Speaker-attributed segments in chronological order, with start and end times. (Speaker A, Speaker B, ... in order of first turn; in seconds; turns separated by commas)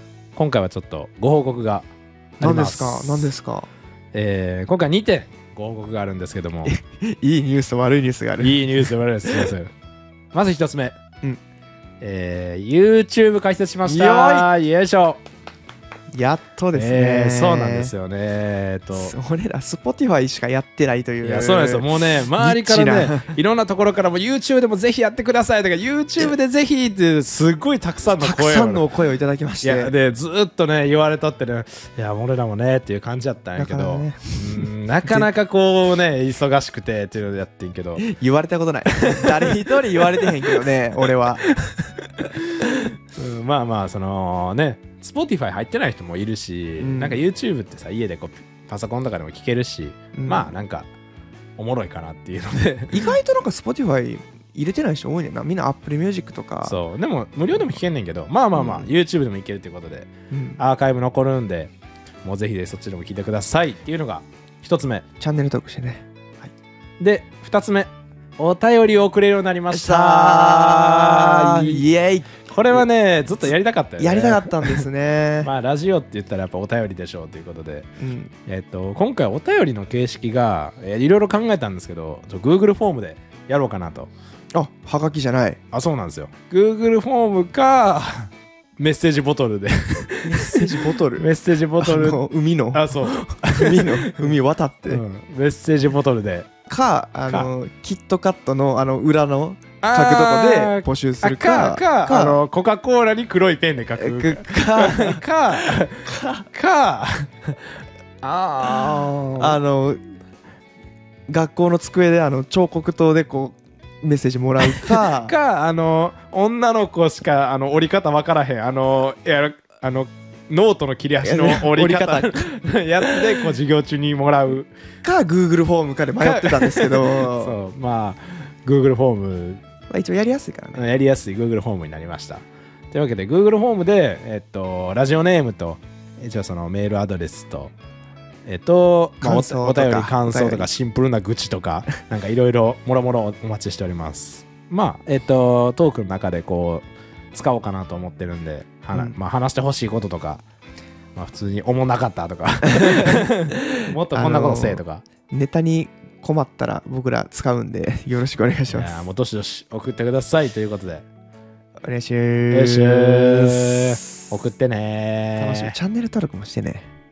Speaker A: 0.3-1.9, Speaker A: 2.4-3.3, Speaker B: 2.4-3.7, Speaker A: 4.1-6.7, Speaker B: 6.6-9.5, Speaker A: 8.4-9.7, Speaker A: 10.3-11.0, Speaker A: 12.0-15.2, Speaker B: 13.8-14.5, Speaker B: 16.1-17.9, Speaker A: 16.7-19.1, Speaker B: 18.9-23.3, Speaker A: 21.2-28.8, Speaker B: 28.2-29.9, Speaker A: 29.6-38.0, Speaker B: 33.6-35.3, Speaker B: 38.0-41.4, Speaker A: 39.0-39.5, Speaker A: 40.2-40.5, Speaker A: 41.6-50.9, Speaker B: 46.8-47.2, Speaker B: 50.1-50.5, Speaker A: 51.6-53.2, Speaker B: 52.9-56.8, Speaker A: 56.6-61.7, Speaker B: 58.5-58.9, Speaker B: 60.3-60.6, Speaker A: 62.2-65.0, Speaker B: 65.2-66.5, Speaker A: 67.0-71.8, Speaker B: 69.7-72.8, Speaker A: 72.5-74.8, Speaker B: 74.0-75.5, Speaker A: 75.4-77.9, Speaker B: 78.0-78.3, Speaker A: 78.5-84.1, Speaker B: 84.5-85.6, Speaker A: 85.7-94.3, Speaker B: 90.2-91.3, Speaker B: 91.8-95.0, Speaker A: 94.9-96.5, Speaker B: 96.7-102.4, Speaker A: 99.8-107.5, Speaker B: 104.0-106.5, Speaker A: 108.2-109.6, Speaker B: 108.8-110.0, Speaker B: 111.3-115.3, Speaker A: 114.6-124.7, Speaker B: 121.2-122.5, Speaker B: 123.0-123.5, Speaker B: 125.0-127.6, Speaker A: 126.2-129.6, Speaker B: 129.9-130.8, Speaker A: 130.7-137.7, Speaker A: 138.4-150.4, Speaker B: 139.2-140.7, Speaker A: 151.2-155.0, Speaker B: 152.8-159.0, Speaker A: 158.7-161.0, Speaker B: 161.8-164.0, Speaker A: 162.5-165.7, Speaker B: 165.4-166.9